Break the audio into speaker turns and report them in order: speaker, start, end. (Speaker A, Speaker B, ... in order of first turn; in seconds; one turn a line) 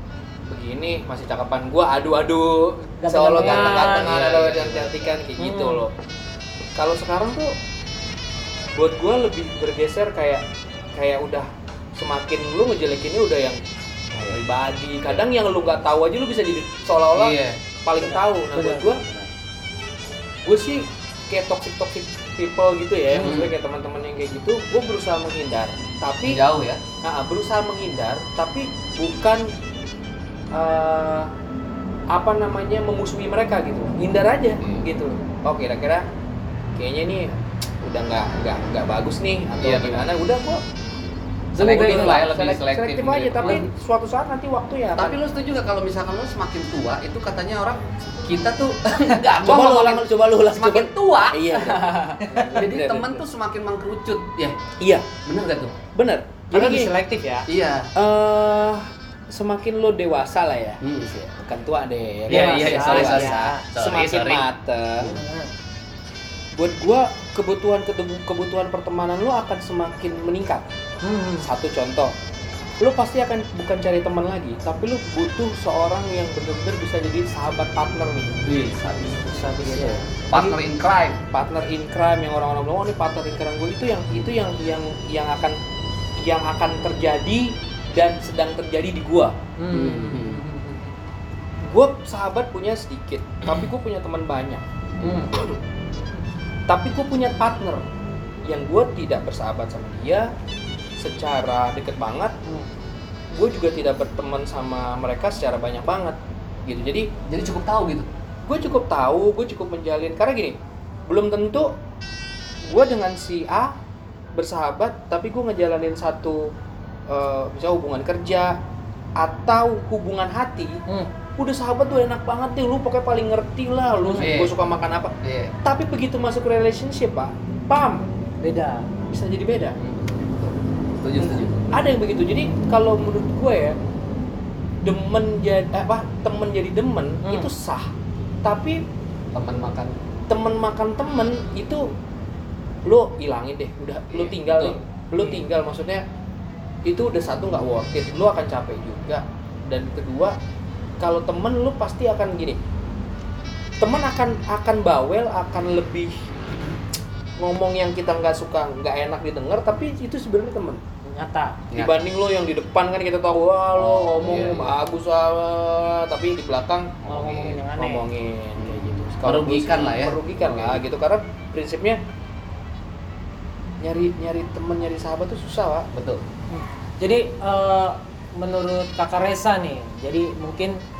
Speaker A: 0.5-5.9
Speaker B: 3.0-4.2
Speaker C: 3.4-5.2
Speaker B: 5.4-5.8
Speaker A: 6.8-7.5
Speaker A: 8.7-10.4
Speaker A: 10.9-13.6
Speaker C: 14.1-14.4
Speaker A: 14.2-19.0
Speaker C: 17.1-17.6
Speaker B: 18.0-19.0
Speaker A: 20.4-26.4
Speaker B: 23.1-23.4
Speaker C: 23.2-23.5
Speaker C: 26.2-26.8
Speaker A: 27.0-29.5
Speaker A: 30.5-31.3
Speaker A: 32.1-36.1
Speaker C: 34.6-34.9
Speaker A: 36.8-40.6
Speaker C: 39.6-40.1
Speaker A: 41.5-45.2
Speaker C: 41.6-43.6
Speaker B: 41.8-42.2
Speaker C: 45.0-54.6
Speaker A: 49.4-53.2
Speaker A: 54.8-55.2
Speaker C: 55.2-55.8
Speaker A: 55.9-56.9
Speaker B: 56.5-57.5
Speaker C: 57.5-57.9
Speaker A: 57.9-65.2
Speaker C: 60.8-61.2
Speaker C: 62.3-64.5
Speaker B: 62.3-63.6
Speaker B: 65.0-65.5
Speaker A: 66.5-70.7
Speaker B: 71.0-71.5
Speaker A: 71.4-72.1
Speaker A: 72.8-78.4
Speaker C: 78.4-81.2
Speaker B: 79.2-80.5
Speaker A: 79.6-80.5
Speaker A: 81.3-85.6
Speaker A: 86.2-89.4
Speaker B: 89.6-90.9
Speaker C: 89.7-90.4
Speaker A: 91.7-94.6
Speaker C: 95.0-95.3
Speaker B: 95.0-95.3
Speaker A: 96.7-97.8
Speaker A: 98.5-100.3
Speaker A: 101.0-102.4
Speaker A: 103.3-107.1
Speaker C: 107.3-108.1
Speaker A: 108.4-111.7
Speaker A: 112.6-113.7
Speaker A: 114.3-116.5
Speaker A: 117.1-118.6
Speaker A: 119.2-120.8
Speaker A: 121.4-128.1
Speaker B: 124.0-124.3
Speaker C: 124.2-124.5
Speaker C: 125.2-125.5
Speaker B: 128.4-128.9
Speaker A: 129.1-129.8
Speaker C: 129.8-131.7
Speaker A: 131.2-133.8
Speaker A: 134.8-137.9
Speaker B: 137.2-137.5
Speaker A: 138.4-138.8
Speaker C: 139.3-139.9
Speaker A: 140.3-141.9
Speaker A: 142.8-146.0
Speaker C: 144.1-144.8
Speaker B: 145.2-145.4
Speaker A: 146.8-150.3
Speaker A: 151.0-152.6
Speaker A: 153.8-156.1
Speaker A: 157.4-160.8
Speaker B: 161.0-161.6
Speaker C: 161.7-162.0
Speaker A: 161.7-172.0
Speaker C: 163.8-164.8
Speaker B: 167.0-168.0
Speaker C: 168.6-170.8
Speaker A: 173.8-175.9
Speaker C: 175.9-176.2
Speaker B: 176.5-180.8